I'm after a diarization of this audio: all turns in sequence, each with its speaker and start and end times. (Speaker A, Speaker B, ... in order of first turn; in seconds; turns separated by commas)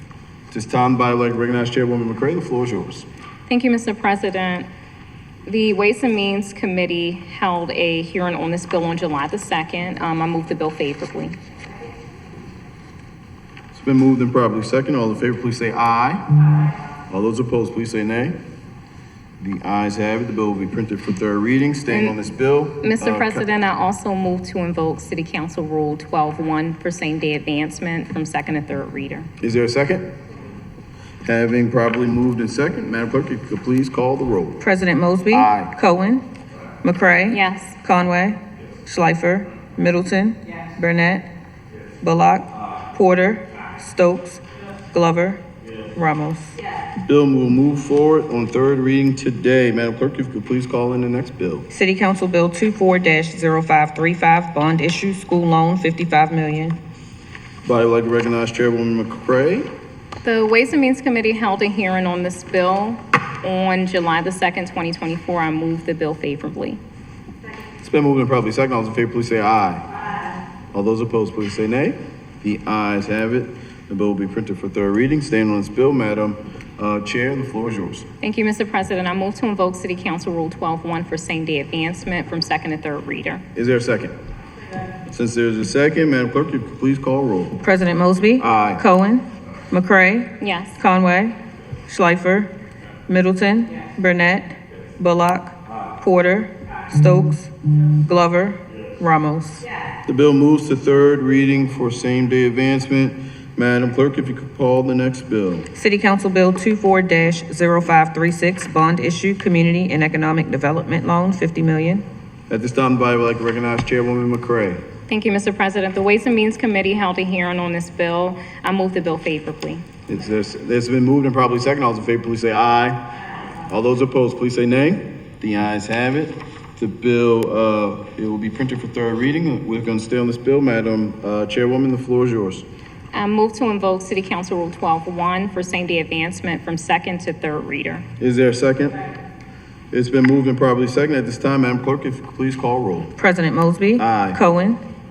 Speaker A: 0.5-3.0, Speaker B: 3.5-4.7, Speaker B: 5.5-11.3, Speaker A: 13.7-16.2, Speaker A: 17.1-18.4, Speaker A: 19.4-23.4, Speaker B: 21.9-22.2, Speaker B: 22.8-29.3, Speaker A: 29.4-30.1, Speaker A: 31.2-34.6, Speaker C: 34.6-36.2, Speaker A: 35.3-35.7, Speaker C: 36.8-41.3, Speaker B: 37.3-37.7, Speaker C: 42.0-44.4, Speaker C: 44.9-45.4, Speaker C: 45.9-46.5, Speaker A: 47.0-51.6, Speaker C: 51.7-56.8, Speaker A: 57.6-59.7, Speaker B: 60.2-66.8, Speaker A: 67.8-69.8, Speaker A: 70.7-78.0, Speaker B: 78.2-83.4, Speaker A: 83.5-84.1, Speaker A: 85.1-87.6, Speaker C: 87.6-91.3, Speaker A: 88.4-88.8, Speaker B: 90.4-90.8, Speaker C: 91.9-92.5, Speaker C: 93.1-99.7, Speaker A: 100.1-105.7, Speaker C: 105.7-112.0, Speaker A: 112.5-114.8, Speaker B: 115.1-119.8, Speaker A: 120.1-123.1, Speaker A: 123.7-132.6, Speaker B: 133.1-138.1, Speaker A: 138.2-139.0, Speaker A: 139.9-143.1, Speaker C: 143.2-144.8, Speaker A: 144.0-144.4